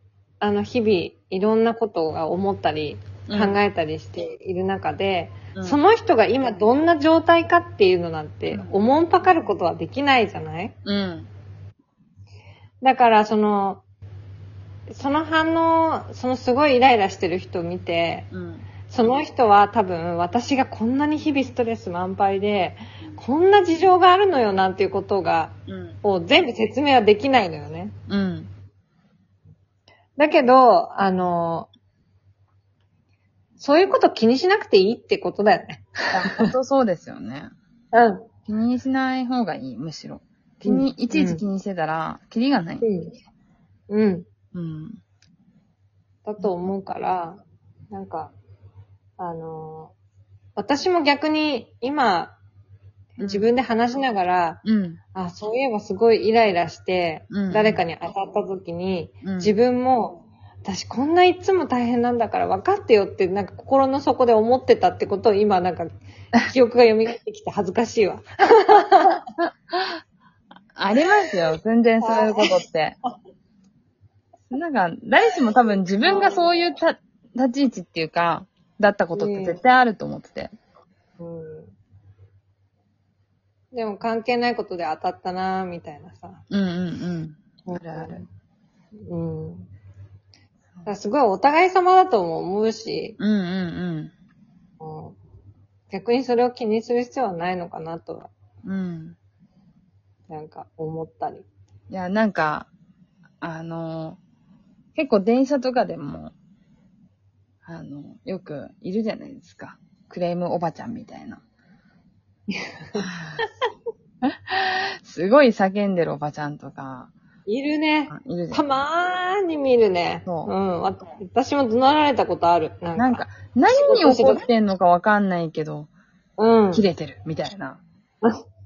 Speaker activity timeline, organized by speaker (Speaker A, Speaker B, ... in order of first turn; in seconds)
Speaker A: 0.4-10.7, 12.8-13.8, 14.9-18.3, 18.9-27.9, 30.2-31.7, 33.6-36.5, 37.9-38.3, 40.6-41.4, 42.8-43.1, 43.9-44.2, 46.2-48.3, 49.2-49.9, 50.5-52.4, 53.2-54.6, 55.1-65.9, 66.5-69.2, 72.0-73.2, 76.0-76.4, 79.1-79.6, 81.2-81.7, 83.7-86.4, 87.7-88.3, 89.0-89.7, 90.8-93.2, 94.8-95.2, 95.9-98.3, 100.3-101.5, 112.5-113.0, 117.5-124.5, 126.4-126.9
Speaker B: 3.3-3.6, 5.5-5.8, 10.8-11.3, 18.3-18.7, 25.7-26.0, 28.1-28.5, 36.1-37.5, 38.5-42.9, 44.5-45.0, 53.2-53.5, 54.6-55.0, 57.3-57.8, 59.2-59.5, 69.4-70.0, 70.8-73.0, 74.5-80.5, 86.5-88.2, 93.2-94.1, 98.6-99.2, 101.9-102.7, 103.4-104.2, 104.9-106.3, 107.6-111.4, 112.9-113.4, 114.3-117.1, 118.1-118.6, 120.2-120.5, 123.0-125.9, 126.7-127.8